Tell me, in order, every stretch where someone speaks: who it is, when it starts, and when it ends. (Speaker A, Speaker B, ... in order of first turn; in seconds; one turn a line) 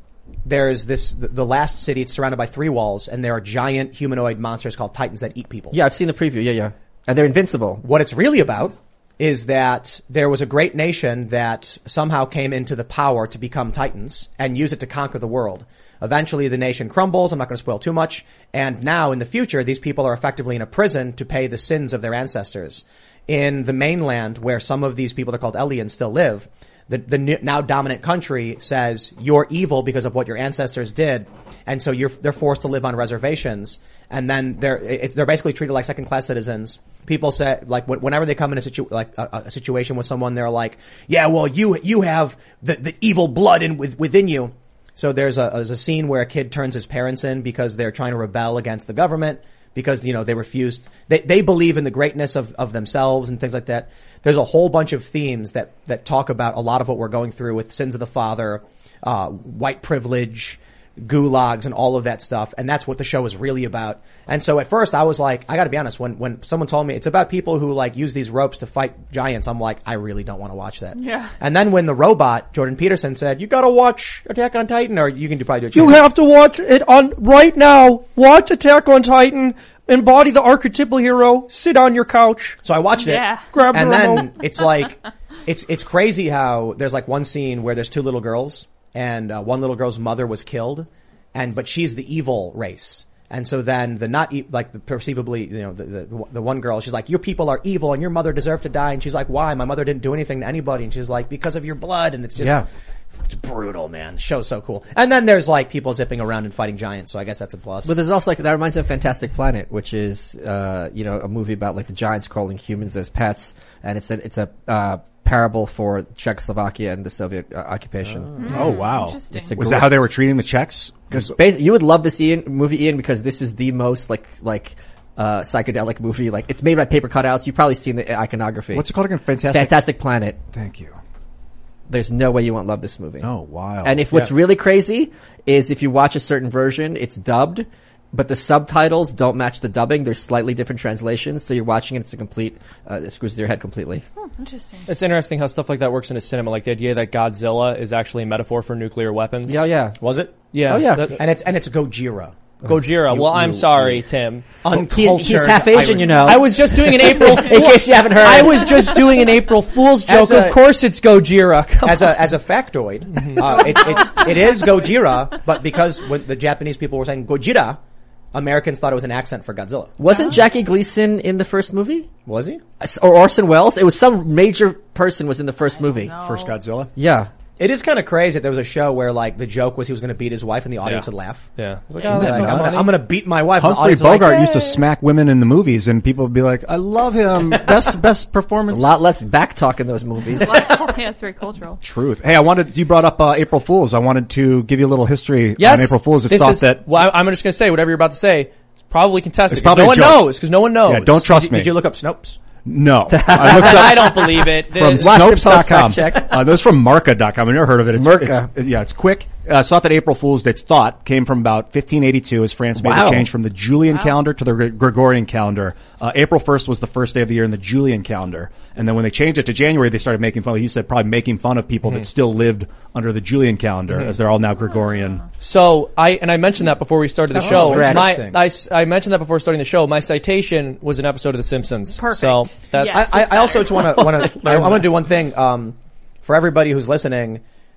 Speaker A: 0.4-5.8
Speaker B: 5.7-7.8
Speaker A: 7.8-76.0
Speaker C: 70.9-71.3
Speaker D: 75.7-82.6
Speaker A: 82.6-102.6
Speaker C: 83.0-83.5
Speaker D: 83.5-84.3
Speaker B: 102.4-102.7
Speaker A: 103.3-108.0
Speaker B: 107.8-118.6
Speaker C: 118.4-119.5
Speaker E: 118.5-121.3
Speaker B: 119.3-120.0
Speaker B: 121.1-128.8
Speaker E: 128.7-129.8
Speaker B: 129.5-130.4
Speaker E: 130.5-131.0
Speaker B: 131.9-133.3
Speaker E: 133.2-134.3
Speaker B: 133.8-144.0
Speaker C: 144.2-144.9
Speaker D: 144.9-149.6
Speaker B: 149.4-150.0
Speaker A: 150.0-150.4
Speaker D: 150.5-151.2
Speaker B: 150.7-151.2
Speaker A: 151.1-152.3
Speaker B: 152.6-153.9
Speaker D: 152.6-154.5
Speaker A: 154.6-156.4
Speaker B: 154.7-158.9
Speaker D: 156.2-162.2
Speaker A: 160.1-160.6
Speaker A: 161.8-167.8
Speaker C: 163.6-164.7
Speaker A: 168.3-169.9
Speaker B: 170.0-172.1
Speaker C: 170.1-170.3
Speaker A: 172.2-172.6
Speaker B: 172.8-176.2
Speaker C: 175.8-176.6
Speaker E: 176.2-176.9
Speaker B: 176.9-177.3
Speaker A: 177.6-181.5
Speaker D: 180.8-182.9
Speaker E: 182.1-182.9
Speaker A: 182.1-184.7
Speaker E: 183.5-188.9
Speaker B: 188.7-190.8
Speaker C: 190.4-191.8
Speaker E: 191.8-196.9
Speaker D: 195.6-201.3
Speaker E: 199.5-201.8
Speaker A: 201.3-202.4
Speaker E: 202.6-225.2
Speaker B: 203.1-204.4
Speaker D: 203.4-205.3
Speaker B: 204.9-206.5
Speaker B: 207.9-208.5
Speaker B: 212.8-213.3
Speaker C: 213.9-214.2
Speaker D: 223.9-224.2
Speaker D: 225.4-233.2
Speaker B: 227.3-228.2
Speaker A: 227.3-228.4
Speaker C: 231.9-234.3
Speaker A: 232.9-237.4
Speaker D: 234.5-234.8